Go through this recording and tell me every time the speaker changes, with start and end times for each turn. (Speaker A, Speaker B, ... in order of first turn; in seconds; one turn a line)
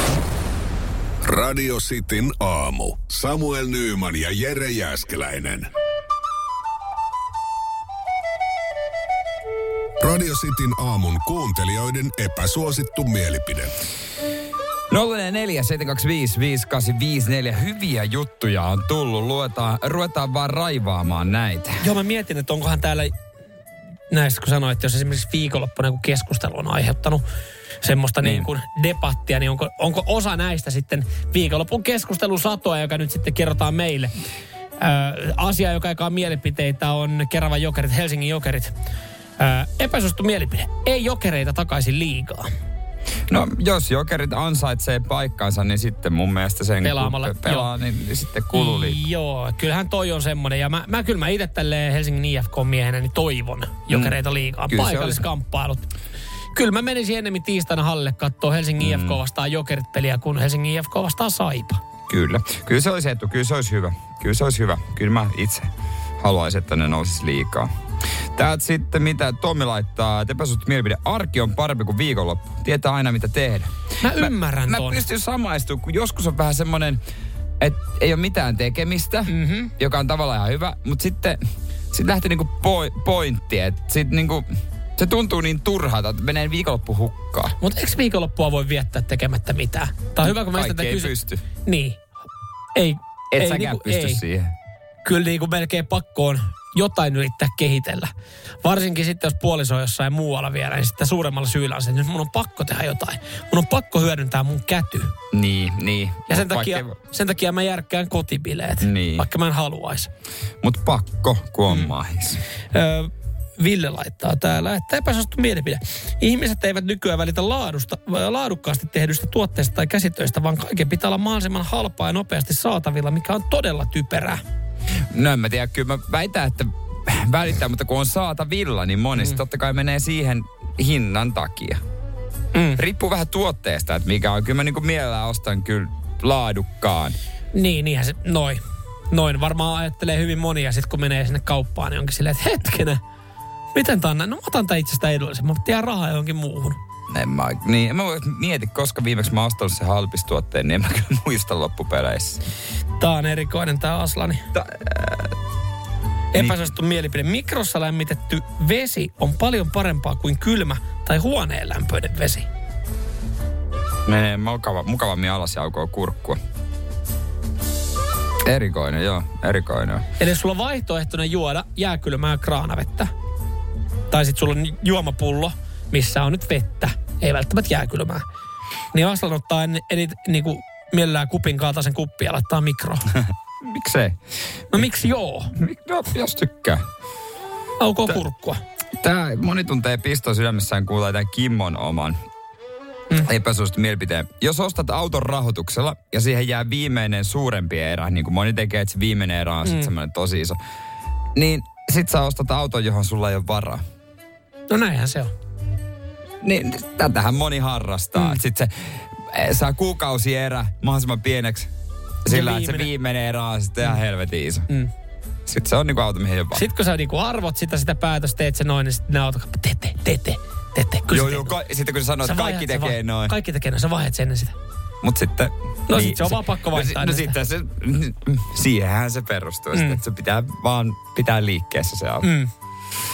Speaker A: 1.2-5.7
Speaker A: 10.0-13.7
Speaker B: 14.9-21.7
Speaker C: 21.8-23.1
Speaker C: 24.1-27.2
Speaker C: 27.8-34.1
Speaker B: 28.2-28.5
Speaker C: 34.8-38.7
Speaker C: 39.4-42.5
Speaker B: 43.3-49.0
Speaker C: 46.8-47.7
Speaker C: 48.5-55.9
Speaker B: 53.9-54.2
Speaker B: 54.7-55.2
Speaker C: 56.5-61.8
Speaker B: 58.8-59.2
Speaker B: 62.1-65.7
Speaker B: 66.2-67.7
Speaker B: 68.3-77.0
Speaker C: 74.0-75.0
Speaker B: 77.6-81.4
Speaker C: 79.3-79.7
Speaker B: 81.9-84.4
Speaker B: 85.0-87.5
Speaker C: 87.6-92.0
Speaker B: 90.2-91.4
Speaker C: 92.7-94.2
Speaker B: 93.3-94.5
Speaker C: 95.0-98.1
Speaker C: 98.6-105.1
Speaker B: 105.3-106.9
Speaker C: 106.3-110.1
Speaker B: 108.8-109.2
Speaker B: 110.6-112.4
Speaker C: 112.7-124.4
Speaker B: 125.1-131.8
Speaker C: 132.5-132.8
Speaker B: 132.8-137.2
Speaker C: 137.5-143.0
Speaker C: 143.7-146.8
Speaker B: 147.1-152.4
Speaker C: 153.0-154.4
Speaker B: 154.5-155.3
Speaker C: 156.3-162.5
Speaker B: 156.3-156.6
Speaker B: 164.1-166.4
Speaker B: 168.4-170.0
Speaker C: 170.2-173.1
Speaker C: 174.1-178.2
Speaker C: 178.9-183.1
Speaker B: 183.6-184.2
Speaker C: 184.7-185.5
Speaker B: 185.6-186.8
Speaker C: 187.8-188.6
Speaker B: 189.0-192.2
Speaker B: 193.2-200.6
Speaker C: 199.6-199.9
Speaker B: 201.3-203.8
Speaker C: 204.7-205.3
Speaker B: 206.4-211.7
Speaker C: 208.2-208.4
Speaker B: 212.2-214.7
Speaker C: 212.3-212.9
Speaker B: 215.5-216.7
Speaker C: 216.5-221.6
Speaker B: 221.1-223.3
Speaker C: 222.2-224.5
Speaker B: 225.0-232.3
Speaker C: 225.9-227.3
Speaker C: 229.7-230.0
Speaker C: 232.2-232.5